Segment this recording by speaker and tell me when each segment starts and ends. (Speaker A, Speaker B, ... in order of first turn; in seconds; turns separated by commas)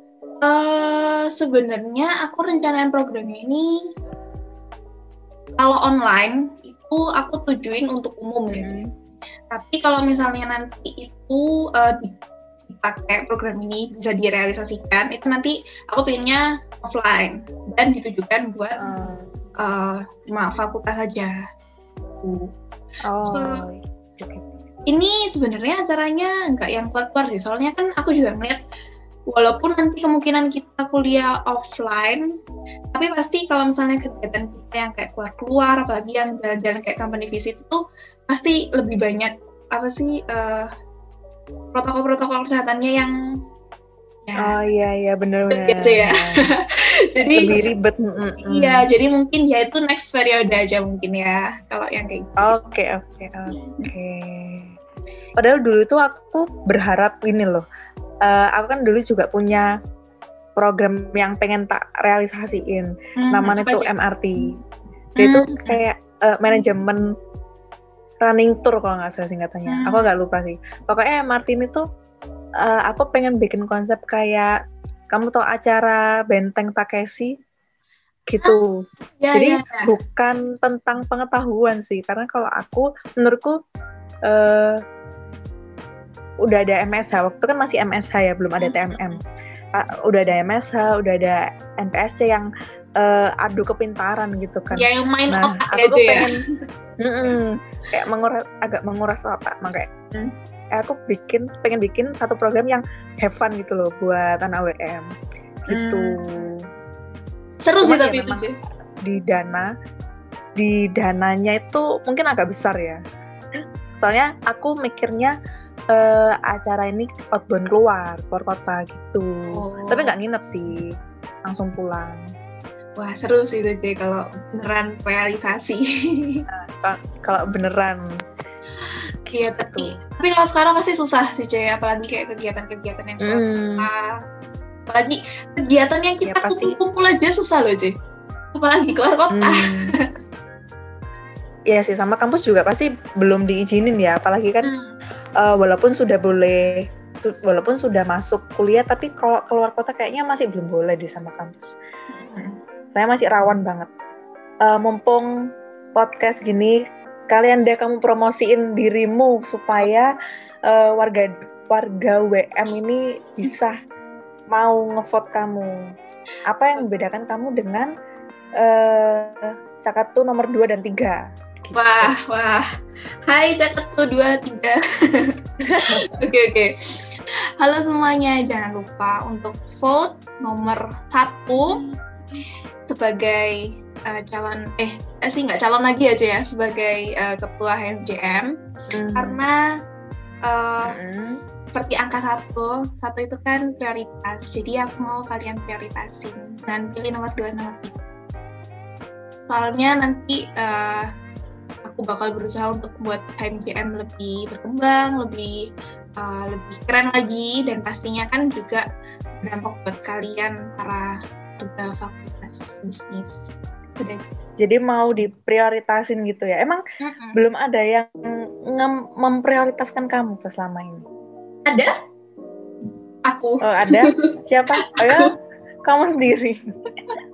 Speaker A: 0.4-3.6, Speaker A: 5.6-8.8, Speaker B: 8.5-8.9, Speaker A: 9.5-19.0, Speaker B: 18.8-19.3, Speaker A: 19.6-21.4, Speaker A: 22.2-22.5, Speaker B: 23.1-24.6, Speaker A: 23.3-23.6, Speaker A: 24.9-28.6, Speaker A: 29.3-32.2, Speaker A: 32.9-40.7, Speaker A: 41.7-43.1, Speaker A: 44.2-44.5, Speaker B: 44.4-46.5, Speaker A: 45.5-47.5, Speaker B: 47.3-48.8, Speaker A: 48.4-52.5, Speaker B: 52.4-54.7, Speaker A: 53.6-53.9, Speaker B: 55.4-57.6, Speaker B: 58.2-59.7, Speaker B: 60.6-64.5, Speaker A: 63.2-63.9, Speaker A: 65.2-65.8, Speaker B: 65.2-67.0, Speaker B: 68.2-71.8, Speaker A: 69.7-70.1, Speaker B: 72.6-74.5, Speaker B: 75.1-77.3, Speaker B: 78.3-78.8, Speaker A: 79.2-79.9, Speaker B: 79.3-83.5, Speaker B: 84.3-84.8, Speaker B: 86.4-89.2, Speaker A: 88.6-89.2, Speaker B: 89.8-92.5, Speaker B: 93.0-96.3, Speaker A: 94.7-96.3, Speaker B: 97.0-99.9, Speaker B: 100.8-105.0, Speaker B: 105.7-106.5, Speaker A: 105.7-106.5, Speaker A: 107.6-108.5, Speaker B: 107.8-108.5, Speaker B: 109.0-109.7, Speaker B: 110.6-113.0, Speaker B: 114.0-115.3, Speaker B: 115.9-120.8, Speaker A: 119.5-120.2, Speaker B: 121.5-122.2, Speaker A: 123.0-126.4, Speaker B: 126.5-128.0, Speaker B: 129.3-130.0, Speaker A: 129.3-134.1, Speaker B: 133.2-133.9, Speaker A: 134.9-137.9, Speaker B: 136.2-136.8, Speaker A: 138.5-140.1, Speaker B: 139.3-139.9, Speaker B: 141.7-144.7, Speaker A: 144.6-144.9, Speaker B: 145.4-151.7, Speaker A: 152.1-152.6, Speaker B: 152.9-153.9, Speaker B: 154.6-155.3, Speaker B: 155.9-156.8, Speaker B: 157.3-160.1, Speaker B: 160.7-163.7, Speaker B: 164.5-165.8, Speaker B: 166.5-167.9, Speaker B: 168.6-172.2, Speaker A: 171.7-172.6, Speaker A: 173.2-176.7, Speaker B: 175.7-176.1, Speaker A: 177.6-181.8, Speaker A: 182.9-188.5, Speaker B: 188.9-189.4, Speaker A: 189.1-189.6, Speaker A: 190.4-190.9, Speaker B: 190.9-191.4, Speaker A: 191.7-198.0, Speaker A: 199.5-201.1, Speaker A: 201.8-205.6, Speaker A: 206.2-208.8, Speaker A: 209.4-214.3, Speaker B: 214.6-216.8, Speaker A: 217.0-217.4, Speaker B: 217.3-218.2, Speaker B: 218.7-221.0, Speaker A: 221.7-221.9, Speaker A: 223.2-224.2, Speaker B: 223.6-225.3, Speaker A: 224.9-225.3, Speaker B: 225.8-226.6